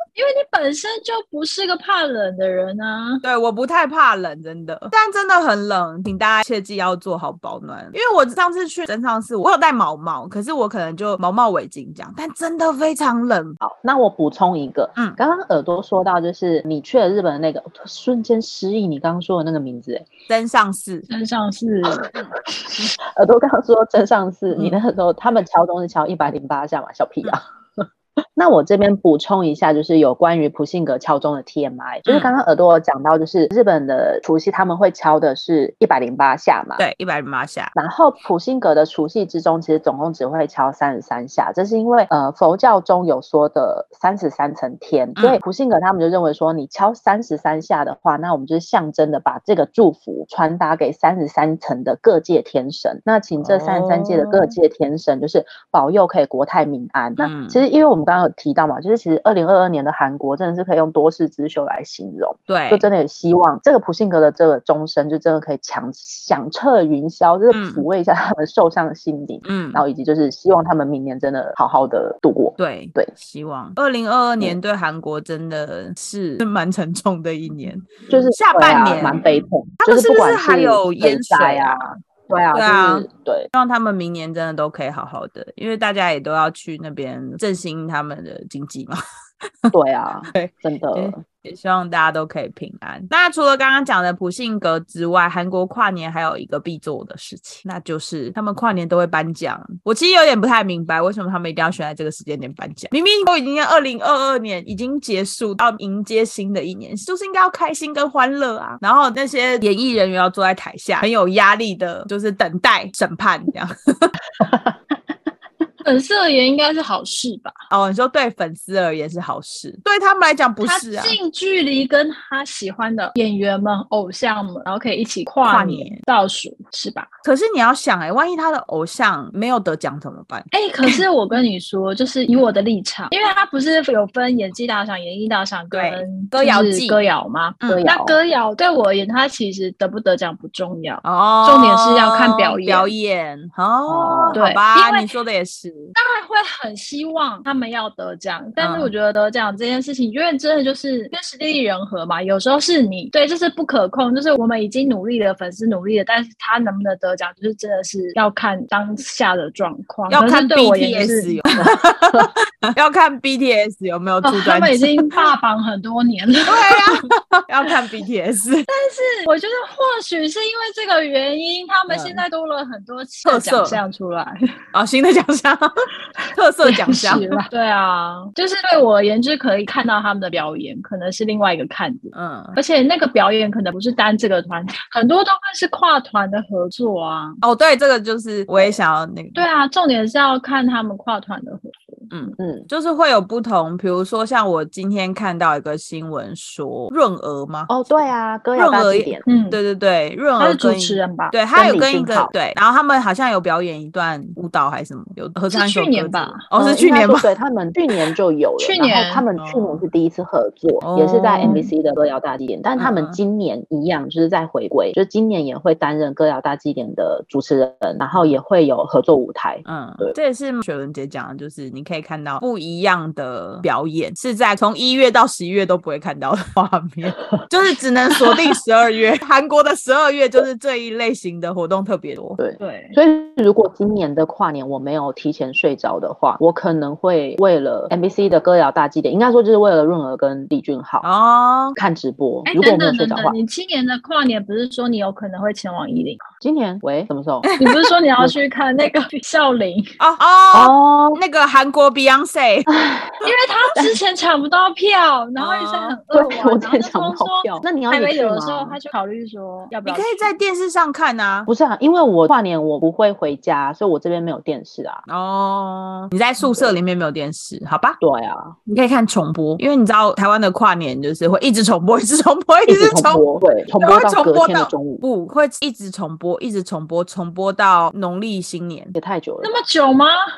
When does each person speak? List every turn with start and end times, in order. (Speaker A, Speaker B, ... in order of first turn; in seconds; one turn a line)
Speaker A: 0.1-3.2
Speaker B: 3.2-13.6
Speaker C: 13.6-20.1
Speaker B: 20.3-21.1
Speaker A: 21.1-22.6
Speaker C: 23.0-36.8
Speaker B: 32.0-32.3
Speaker B: 36.8-37.7
Speaker C: 37.7-73.1
Speaker B: 53.4-54.5
Speaker B: 57.2-57.6
Speaker B: 62.5-62.9
Speaker B: 67.5-67.8
Speaker B: 69.4-69.8
Speaker B: 72.6-82.0
Speaker C: 78.1-83.5
Speaker B: 82.5-89.0
Speaker C: 89.7-91.2
Speaker B: 90.3-114.2
Speaker A: 115.8-117.6
Speaker B: 117.7-121.2
Speaker A: 120.6-127.1
Speaker B: 125.4-126.0
Speaker B: 127.2-130.9
Speaker A: 130.5-142.9
Speaker B: 135.7-137.0
Speaker C: 137.7-138.2
Speaker B: 141.0-145.9
Speaker C: 143.9-144.4
Speaker A: 144.3-145.1
Speaker A: 145.9-161.4
Speaker B: 148.6-148.9
Speaker B: 160.1-165.3
Speaker C: 161.6-162.3
Speaker A: 164.2-166.9
Speaker B: 166.5-168.7
Speaker A: 168.7-174.3
Speaker B: 171.9-172.2
Speaker B: 173.2-173.8
Speaker B: 174.7-177.4
Speaker A: 176.6-187.4
Speaker B: 182.1-182.6
Speaker B: 187.4-189.4
Speaker A: 189.3-192.1
Speaker B: 192.1-197.7
Speaker C: 192.4-192.7
Speaker C: 197.7-199.2
Speaker B: 198.6-207.3
Speaker A: 199.2-199.6
Speaker A: 200.4-201.3
Speaker C: 201.5-202.3
Speaker A: 205.5-206.4
Speaker C: 206.5-220.1
Speaker A: 208.6-209.2
Speaker B: 209.4-209.8
Speaker B: 210.8-211.6
Speaker A: 211.4-211.7
Speaker B: 212.8-213.2
Speaker B: 219.6-232.4
Speaker C: 232.4-241.0
Speaker A: 232.6-232.9
Speaker B: 241.0-241.8
Speaker C: 241.8-243.3
Speaker A: 242.5-246.2
Speaker C: 246.4-247.5
Speaker B: 247.4-247.8
Speaker A: 247.6-249.9
Speaker B: 250.0-252.7
Speaker C: 250.5-251.2
Speaker C: 252.7-254.0
Speaker A: 253.2-260.3
Speaker B: 255.4-256.0
Speaker C: 256.1-258.8
Speaker B: 259.9-261.5
Speaker C: 261.5-265.0
Speaker B: 265.1-268.0
Speaker C: 266.4-266.7
Speaker C: 268.0-268.5
Speaker B: 268.7-273.2
Speaker C: 272.7-275.0
Speaker B: 273.8-278.9
Speaker C: 278.9-279.5
Speaker A: 279.4-280.2